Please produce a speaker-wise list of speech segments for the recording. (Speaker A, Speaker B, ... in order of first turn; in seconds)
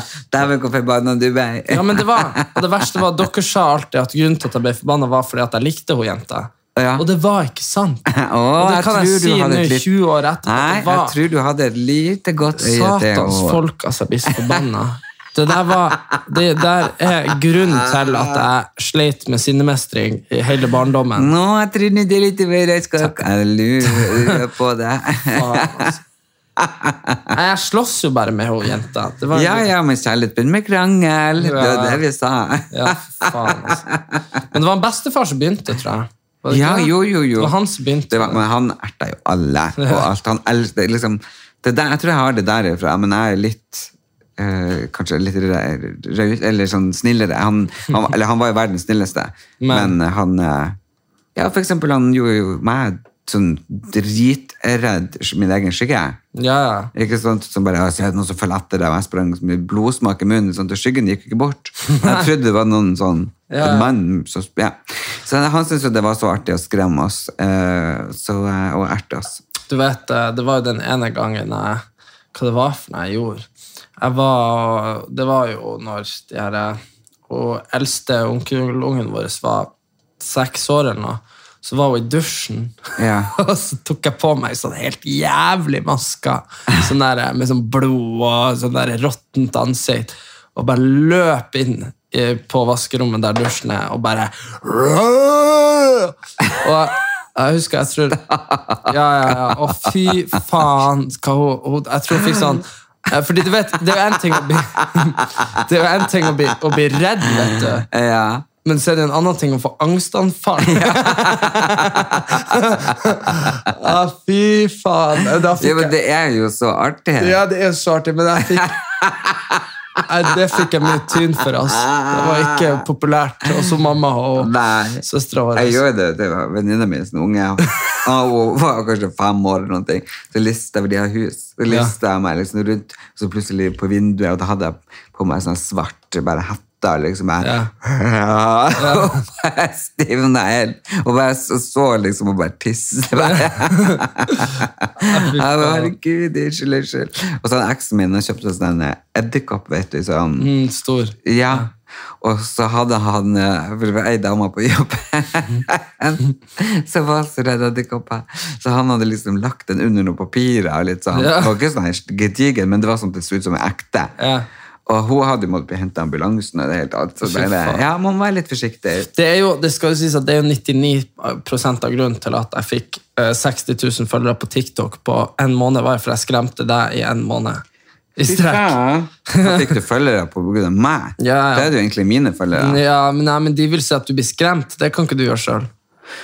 Speaker A: 0.3-2.9, 6.8-7.0, 8.1-9.9, 10.4-13.6, 14.3-14.6, 17.6-18.4, 21.1-25.9, 26.6-27.3, 29.3-34.2, 36.5-37.6, 38.1-50.8, 51.3-56.2, 56.9-69.4, 83.0-83.3, 98.1-100.1, 102.1-102.6, 103.9-105.3, 107.2-108.5, 110.6-113.7, 115.6-117.4, 118.5-119.6, 121.7-122.8, 124.3-125.0, 125.5-150.5, 151.2-164.1, 164.9-169.1, 178.2-182.8
Speaker B: 1.7-8.0, 8.6-11.2, 12.5-21.3, 23.8-24.4, 25.3-26.0, 27.3-29.7, 31.4-32.0, 32.7-33.8, 34.5-38.4, 39.8-40.0, 49.6-50.0, 56.3-56.9, 61.9-62.3, 63.5-63.9, 69.7-71.8, 72.3-73.5, 74.0-82.8, 83.3-98.2, 98.8-107.9, 108.6-115.9, 117.2-118.7, 120.0-124.5, 125.0-125.8, 137.4-137.7, 138.8-139.2, 143.2-144.5, 145.1-145.9, 150.4-151.7, 161.1-161.5, 164.2-164.5, 167.2-167.8, 169.1-177.6, 178.2-178.7, 179.3-179.7, 181.2-181.7, 182.5-185.7